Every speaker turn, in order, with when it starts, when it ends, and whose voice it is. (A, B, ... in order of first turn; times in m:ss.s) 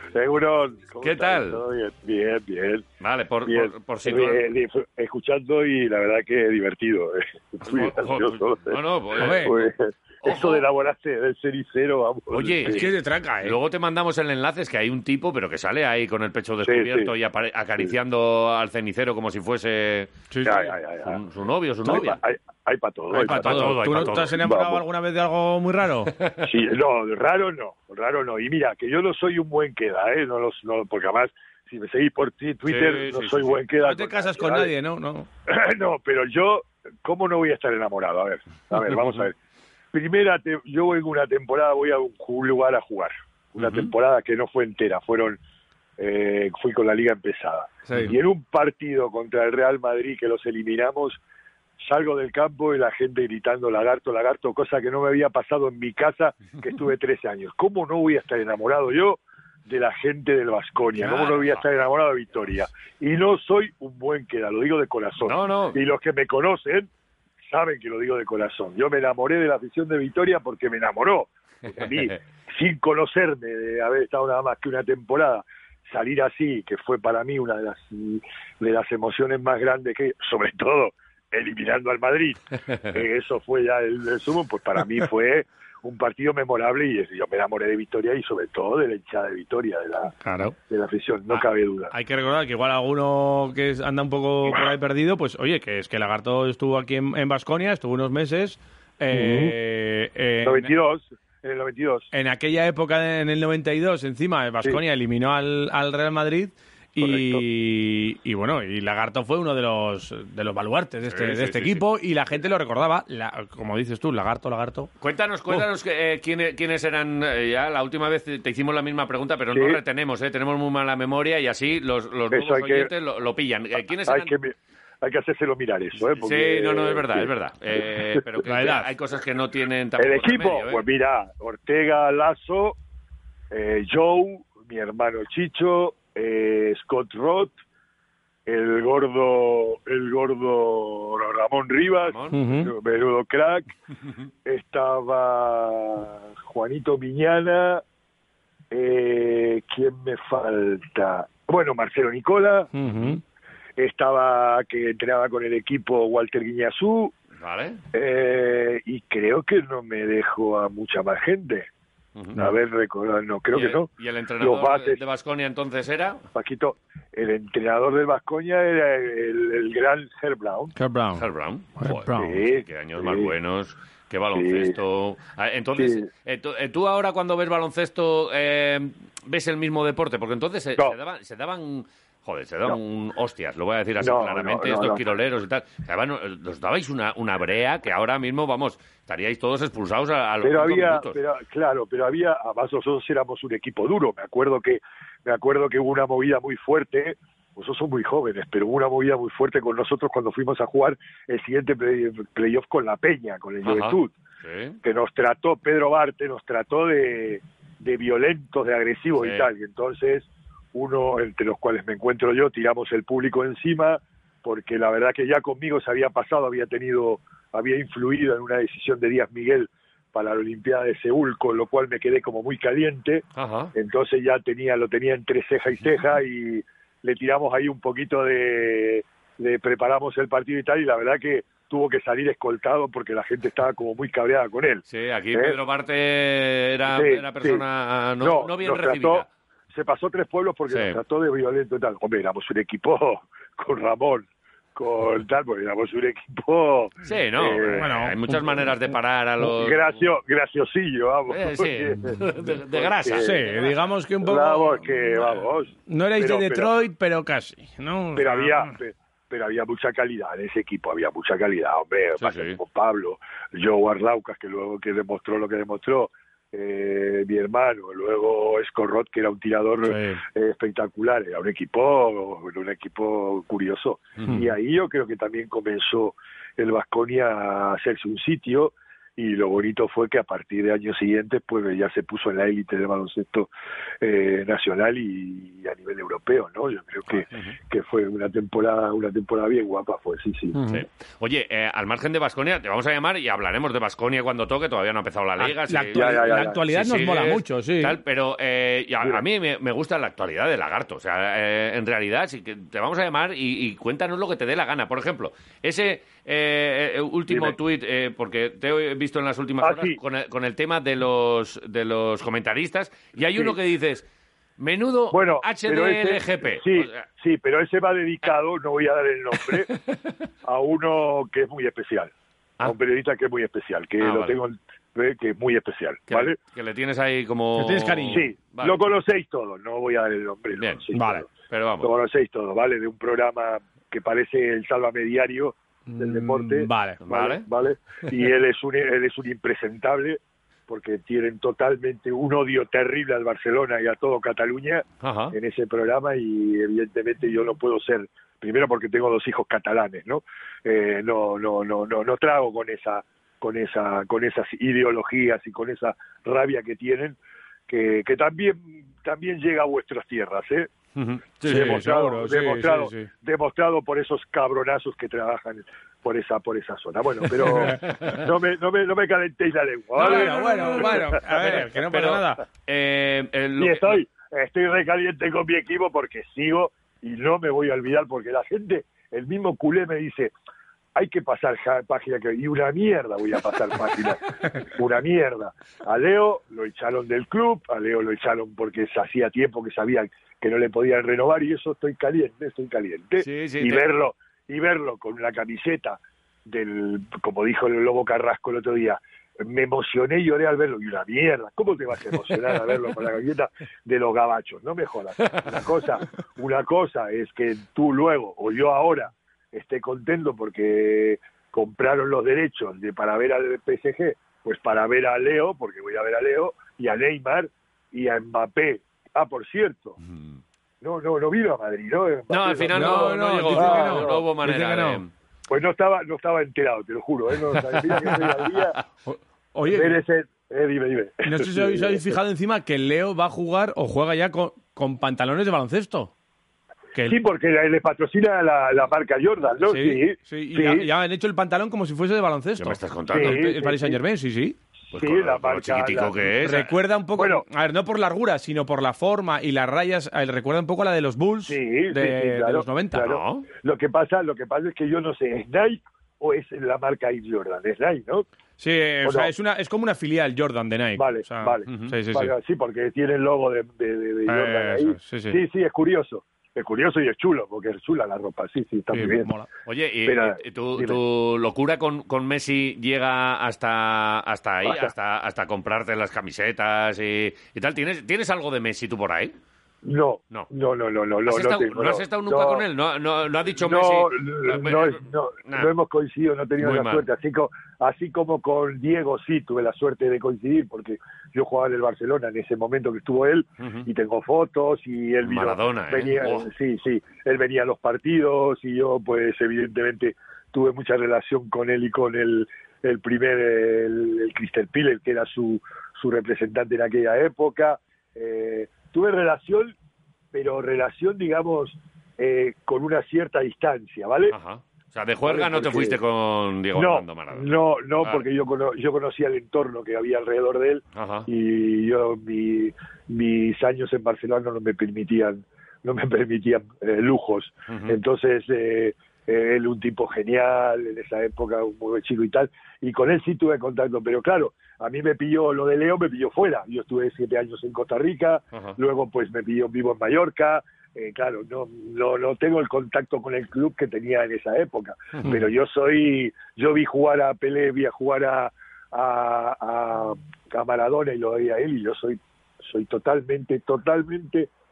0:00.1-0:02.8 A
0:01.0-0:01.6 B
0:03.0-0:04.5 B
0:03.4-0:08.8 A
0:07.7-0:09.6 B
0:09.2-0:09.6 C
0:09.4-0:12.8 A
0:10.2-0:10.7 B
0:12.3-0:20.2 B
0:12.6-0:13.6 C
0:16.6-0:17.1 A
0:20.3-0:20.7 C
0:20.4-0:21.2 A
0:21.0-0:22.2 B
0:21.8-0:24.8 A
0:23.1-0:26.1 C
0:23.2-0:24.4 B
0:26.4-0:34.7 A
0:32.6-0:33.6 B
0:33.8-0:35.3 C
0:35.5-0:39.3 A
0:38.9-0:39.2 B
0:39.9-0:45.4 A
0:43.6-0:43.9 B
0:46.0-0:51.2 A
0:47.9-0:48.1 C
0:51.8-1:06.9 A
1:01.0-1:01.5 C
1:05.2-1:05.8 B
1:07.5-1:22.4 A
1:22.9-1:30.1 A
1:30.2-1:30.6 C
1:30.7-1:31.9 A
1:31.9-1:40.7 C
1:39.1-1:39.5 A
1:40.4-1:42.1 A
1:42.1-1:54.9 C
1:47.0-1:47.4 A
1:51.1-1:51.8 B
1:55.0-2:04.3 B
1:59.5-1:59.8 A
2:02.3-2:02.9 A
2:04.0-2:08.2 A
2:06.1-2:10.8 B
2:08.5-2:08.9 C
2:10.0-2:12.7 A
2:13.5-2:17.6 A
2:18.5-2:23.7 A
2:22.0-2:22.4 B
2:22.3-2:22.7 C
2:24.4-2:27.8 A
2:28.7-2:32.7 A
2:32.7-2:33.2 C
2:33.8-2:37.1 A
2:37.4-2:37.8 B
2:37.9-2:41.7 A
2:42.2-2:42.4 B
2:42.4-2:43.9 A
2:43.5-2:46.2 B
2:44.4-2:45.0 A
2:46.3-2:50.7 A
2:50.8-2:51.2 C
2:51.2-3:11.2 B
2:51.8-2:52.4 C
2:52.2-2:53.3 A
2:54.3-2:54.8 A
2:55.8-2:56.1 A
3:04.0-3:05.0 A
3:10.4-3:24.1 A
3:23.6-3:24.8 B
3:24.8-3:43.2 A
3:29.2-3:29.5 B
3:43.3-3:43.7 B
3:43.7-3:55.6 A
3:54.9-3:59.3 B
3:56.9-3:57.6 A
3:58.2-4:07.8 A
4:00.7-4:01.0 B
4:07.0-4:10.0 B
4:07.8-4:08.7 C
4:09.4-4:12.1 A
4:11.3-4:13.6 B
4:12.7-4:13.4 A
4:13.2-4:15.0 C
4:14.2-4:16.7 A
4:15.9-4:18.8 C
4:18.2-4:43.5 A
4:22.2-4:22.6 B
4:29.8-4:30.2 C
4:44.0-4:50.6 A
4:50.6-4:50.8 C
4:50.7-5:14.0 B
4:55.4-4:58.0 C
4:55.9-4:56.6 A
5:07.3-5:07.6 A
5:09.6-5:10.0 A
5:14.6-5:17.0 B
5:15.1-5:19.7 A
5:20.4-5:26.4 A
5:24.0-5:24.4 B
5:26.1-5:28.9 B
5:27.6-5:28.2 C
5:28.1-5:31.3 A
5:30.6-5:31.9 B
5:30.9-5:31.2 C
5:31.8-5:57.2 A
5:35.9-5:37.0 C
5:37.0-5:37.4 B
5:45.0-5:45.4 B
5:57.7-6:00.7 A
6:01.0-6:01.8 B
6:01.4-6:03.1 C
6:01.4-6:11.2 A
6:07.5-6:07.7 C
6:10.0-6:12.4 C
6:10.0-6:14.0 B
6:13.6-6:20.3 A
6:21.0-6:24.2 A
6:24.8-7:00.0 A
6:33.2-6:33.9 B
7:00.8-7:04.2 A
7:02.3-7:05.1 B
7:02.7-7:05.0 C
7:05.5-7:08.7 A
7:09.1-7:10.0 C
7:09.7-7:12.1 A
7:11.2-7:16.1 C
7:17.1-7:20.9 A
7:19.6-7:24.6 C
7:22.6-7:23.4 B
7:23.1-7:24.0 A
7:24.9-7:26.7 B
7:24.9-7:26.3 A
7:26.4-7:33.0 C
7:27.2-7:27.4 A
7:31.4-7:38.2 A
7:33.0-7:33.5 B
7:38.6-7:42.3 C
7:39.0-7:39.3 A
7:41.0-7:49.3 A
7:41.7-7:41.9 B
7:44.3-7:45.4 C
7:48.9-7:49.4 C
7:49.6-7:59.3 B
7:50.0-7:51.0 A
7:54.6-7:54.9 A
7:59.8-8:02.6 A
8:01.2-8:05.7 B
8:03.6-8:29.7 A
8:06.6-8:07.1 B
8:13.6-8:13.9 B
8:15.2-8:16.5 B
8:30.3-8:34.4 A
8:34.3-8:38.2 B
8:35.2-8:36.0 A
8:36.8-9:14.5 A
8:40.9-8:41.3 B
8:47.7-8:48.0 B
8:58.5-8:58.8 B
9:05.1-9:05.4 B